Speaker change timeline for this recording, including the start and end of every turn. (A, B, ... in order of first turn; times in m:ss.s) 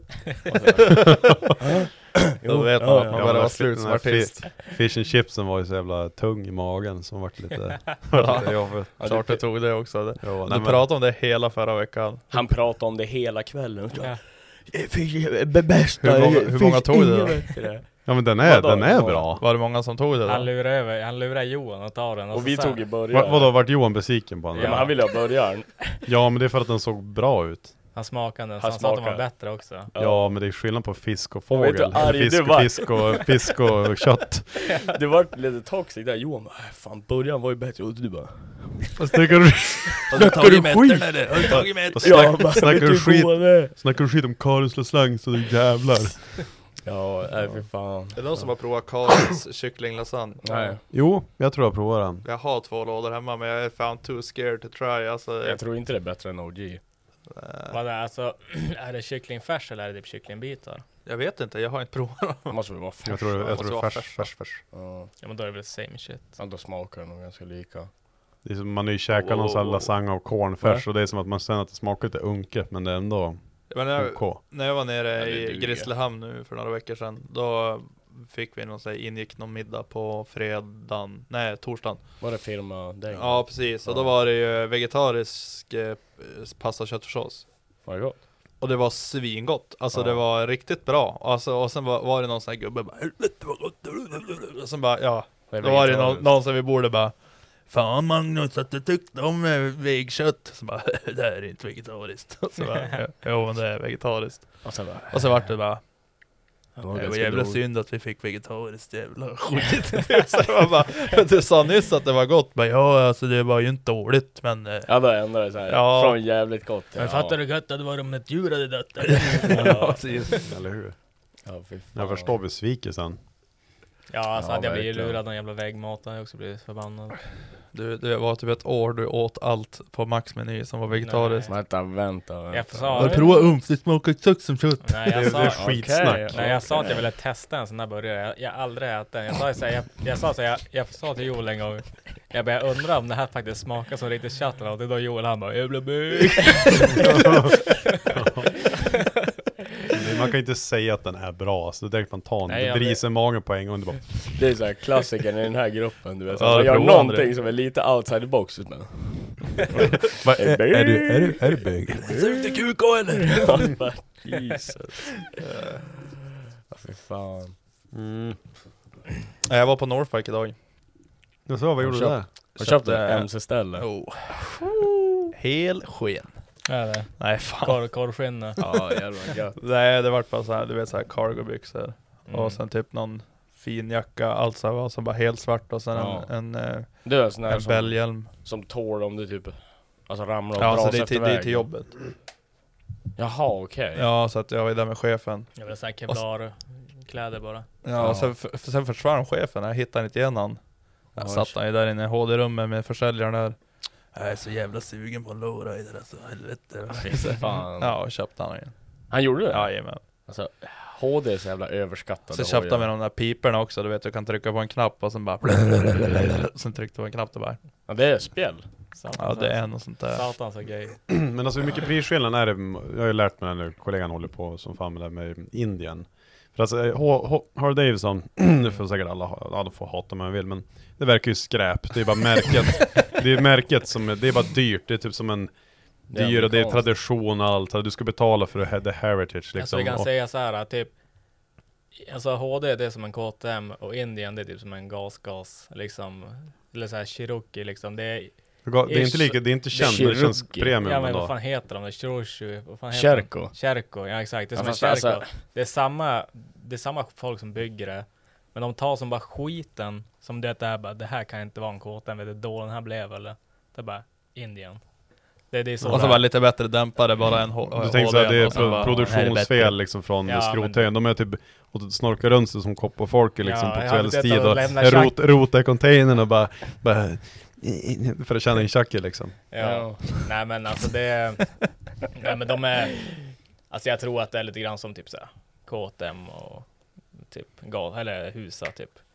0:00.4-0:03.5 A
0:02.4-0:04.4 B
0:03.1-0:08.9 C
0:08.1-0:12.4 B
0:09.0-0:09.4 A
0:10.2-0:10.9 C
0:12.3-0:19.3 A
0:16.0-0:17.6 B
0:18.0-0:19.4 C
0:19.4-0:20.5 B
0:20.2-0:22.8 D
0:22.3-0:23.5 A
0:23.1-0:25.0 C
0:24.5-0:26.0 A
0:24.5-0:24.9 D
0:26.0-0:27.7 C
0:27.9-0:29.9 D
0:28.6-0:29.2 A
0:29.9-0:30.3 A
0:30.0-0:34.6 C
0:31.5-0:33.8 A
0:34.7-0:39.0 A
0:39.0-0:40.3 C
0:40.1-0:42.7 B
0:40.1-0:43.7 A
0:41.5-0:46.6 C
0:46.8-0:48.5 A
0:48.1-0:50.7 B
0:50.4-0:50.8 A
0:50.9-0:52.2 C
0:52.2-0:55.6 B
0:55.4-0:56.8 A
0:57.3-0:57.8 B
0:57.7-1:00.8 D
1:01.0-1:02.6 B
1:02.5-1:03.5 A
1:03.0-1:04.6 C
1:03.4-1:04.3 B
1:04.7-1:05.1 A
1:05.2-1:06.4 D
1:06.4-1:07.9 A
1:08.4-1:14.4 C
1:09.1-1:09.9 B
1:13.7-1:22.1 B
1:15.1-1:15.9 A
1:22.2-1:24.1 A
1:23.1-1:27.5 B
1:27.8-1:28.2 A
1:28.6-1:45.9 B
1:29.9-1:30.2 A
1:35.5-1:36.3 A
1:44.6-1:45.6 A
1:46.8-1:47.6 A
1:46.9-1:54.9 B
1:54.9-1:57.4 A
1:55.7-1:56.2 B
1:57.0-2:00.4 D
1:59.1-2:00.4 B
2:00.3-2:01.0 C
2:01.4-2:02.3 A
2:01.9-2:03.2 C
2:04.1-2:07.2 D
2:04.4-2:05.2 A
2:07.7-2:11.5 B
2:10.9-2:11.6 D
2:11.5-2:13.3 A
2:12.5-2:13.4 D
2:13.0-2:14.9 B
2:14.8-2:27.4 D
2:15.1-2:16.4 C
2:15.3-2:17.0 A
2:26.9-2:28.7 C
2:29.9-2:34.4 C
2:32.5-2:33.0 D
2:34.3-2:42.6 A
2:36.3-2:37.3 B
2:40.2-2:42.0 C
2:41.9-2:43.7 B
2:43.1-2:45.4 A
2:45.3-2:45.9 B
2:46.7-2:47.5 A
2:47.9-2:48.4 C
2:49.4-2:50.5 B
2:51.5-2:52.3 C
2:51.8-2:54.0 A
2:52.6-2:54.6 B
2:55.3-2:56.4 B
2:56.6-2:58.6 D
2:57.2-2:57.9 B
2:58.6-2:59.6 A
2:59.6-3:08.3 B
3:02.3-3:02.6 D
3:05.9-3:11.7 A
3:10.6-3:11.9 B
3:13.2-3:14.0 A
3:13.9-3:15.5 B
3:15.6-3:17.6 D
3:17.8-3:20.6 B
3:18.0-3:18.3 A
3:21.1-3:23.6 B
3:21.2-3:21.6 A
3:24.1-3:28.7 B
3:26.9-3:27.9 A
3:29.1-3:32.9 A
3:29.5-3:30.0 B
3:32.3-3:37.6 B
3:37.9-3:38.7 A
3:38.9-3:41.0 D
3:39.2-3:40.3 B
3:41.1-3:55.5 C
3:56.1-4:00.1 C
3:56.1-3:56.9 A
3:59.6-4:00.9 D
4:02.0-4:08.3 D
4:08.6-4:11.3 C
4:08.8-4:09.4 D
4:09.7-4:10.8 A
4:10.8-4:24.8 D
4:12.9-4:13.6 A
4:14.5-4:15.3 A
4:25.5-4:26.3 D
4:25.8-4:26.2 C
4:25.9-4:29.8 B
4:27.7-4:39.4 C
4:28.5-4:29.1 D
4:30.2-4:30.9 D
4:33.4-4:35.2 D
4:39.5-4:49.0 D
4:39.6-4:40.2 A